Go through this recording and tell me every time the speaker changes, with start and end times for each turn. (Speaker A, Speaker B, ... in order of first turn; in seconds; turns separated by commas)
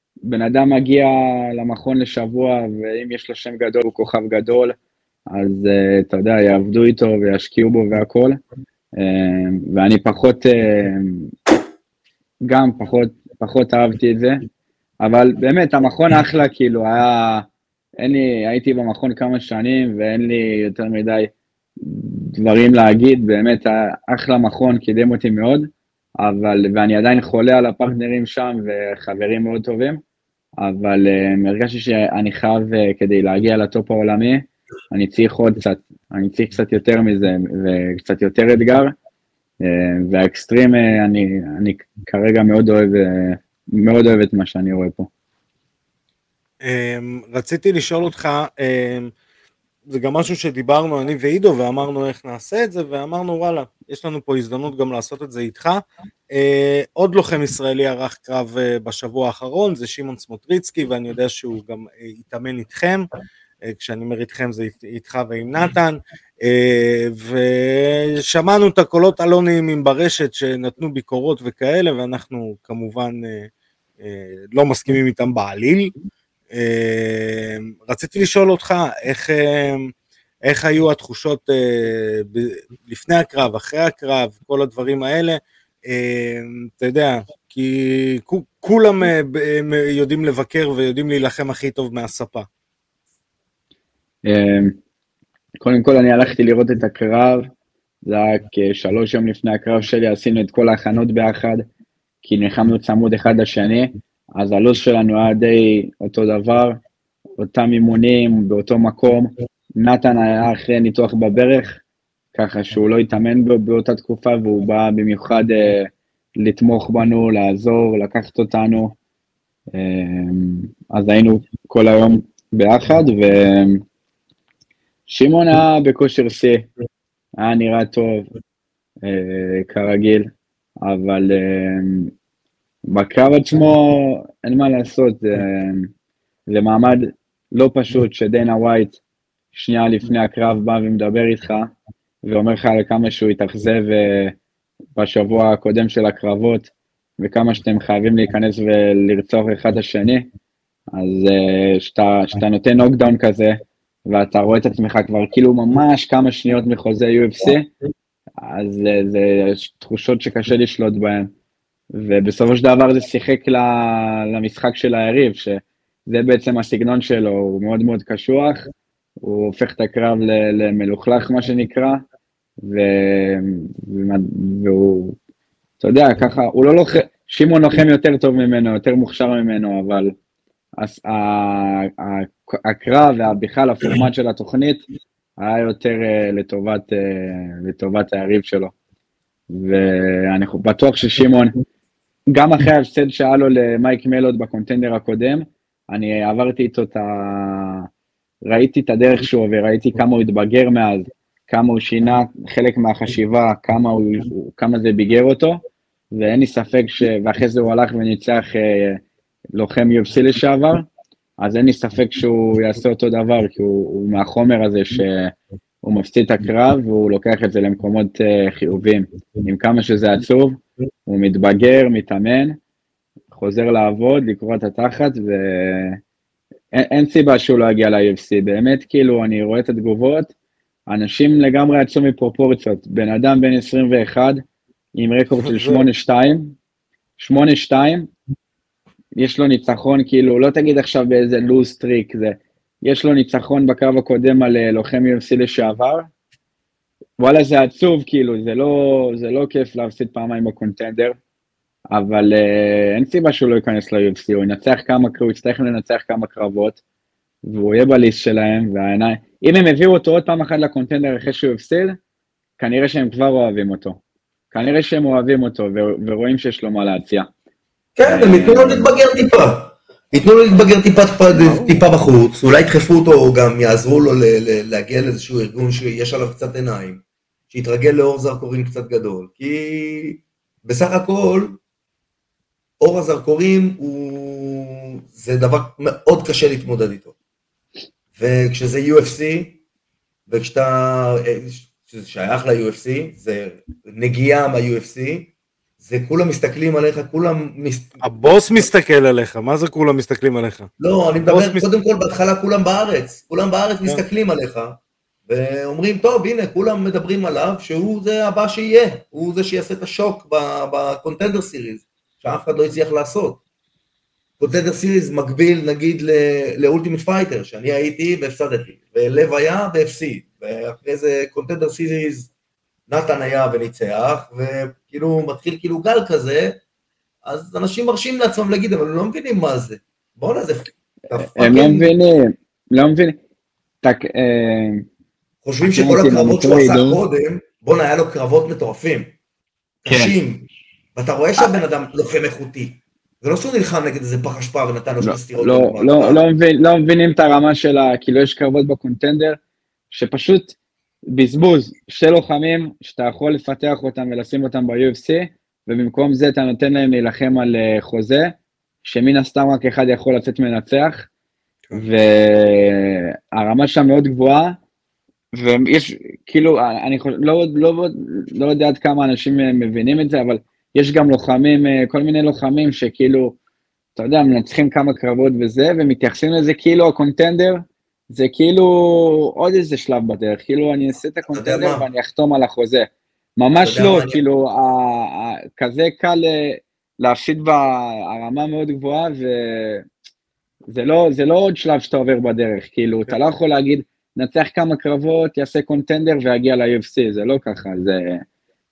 Speaker A: 0.2-4.8, Speaker A: 5.3-8.4, Speaker A: 9.0-11.3, Speaker A: 12.4-14.4, Speaker A: 15.0-17.5, Speaker A: 18.0-30.0, Speaker A: 30.6-39.0, Speaker A: 39.6-45.1, Speaker B: 46.6-49.1, Speaker B: 49.9-63.1, Speaker B: 63.6-73.5, Speaker B: 74.0-76.0, Speaker B: 76.5-79.9, Speaker B: 80.5-92.5, Speaker A: 94.2-94.8, Speaker A: 95.6-97.5, Speaker A: 98.0-101.7, Speaker A: 102.2-106.8, Speaker A: 107.4-111.8, Speaker A: 112.3-119.0, Speaker A: 119.7-123.8, Speaker A: 125.1-126.7, Speaker A: 127.4-128.3, Speaker A: 129.0-130.3, Speaker A: 130.8-132.1, Speaker A: 132.9-135.9, Speaker A: 136.5-139.0, Speaker A: 139.5-141.7, Speaker A: 142.2-144.4, Speaker A: 145.0-150.3, Speaker A: 150.9-157.7, Speaker A: 158.4-161.3, Speaker A: 161.9-168.7, Speaker A: 169.2-172.0, Speaker A: 172.6-175.2, Speaker A: 175.8-180.1, Speaker A: 180.8-184.8, Speaker A: 185.4-188.7, Speaker A: 189.5-191.6, Speaker A: 192.3-197.9, Speaker A: 198.5-205.6, Speaker A: 206.2-209.0, Speaker A: 209.6-210.9, Speaker A: 211.4-222.6, Speaker A: 223.3-226.0, Speaker A: 226.7-230.3, Speaker A: 230.9-234.4, Speaker A: 234.9-236.6, Speaker B: 235.4-235.8, Speaker A: 237.2-238.1, Speaker A: 239.2-246.1, Speaker A: 247.2-251.2, Speaker A: 251.9-256.8, Speaker A: 257.4-262.0, Speaker A: 262.6-264.0, Speaker A: 264.5-267.3, Speaker C: 268.0-281.6, Speaker A: 268.1-268.9, Speaker A: 271.4-271.8, Speaker C: 282.8-287.1, Speaker C: 288.2-289.6, Speaker C: 290.3-298.0, Speaker B: 298.0-300.7, Speaker C: 300.8-313.4, Speaker B: 301.3-301.6, Speaker C: 314.4-322.3, Speaker C: 322.9-326.6, Speaker C: 327.2-331.9, Speaker A: 331.1-333.2, Speaker A: 333.8-334.9, Speaker C: 335.4-339.2, Speaker A: 335.6-337.0, Speaker C: 339.8-346.2, Speaker A: 339.9-340.2, Speaker A: 345.0-349.4, Speaker A: 349.9-350.6, Speaker A: 351.1-361.1, Speaker A: 361.7-364.6, Speaker A: 365.4-373.4, Speaker A: 374.0-389.9, Speaker C: 381.3-381.9, Speaker C: 383.6-384.2, Speaker A: 390.7-398.2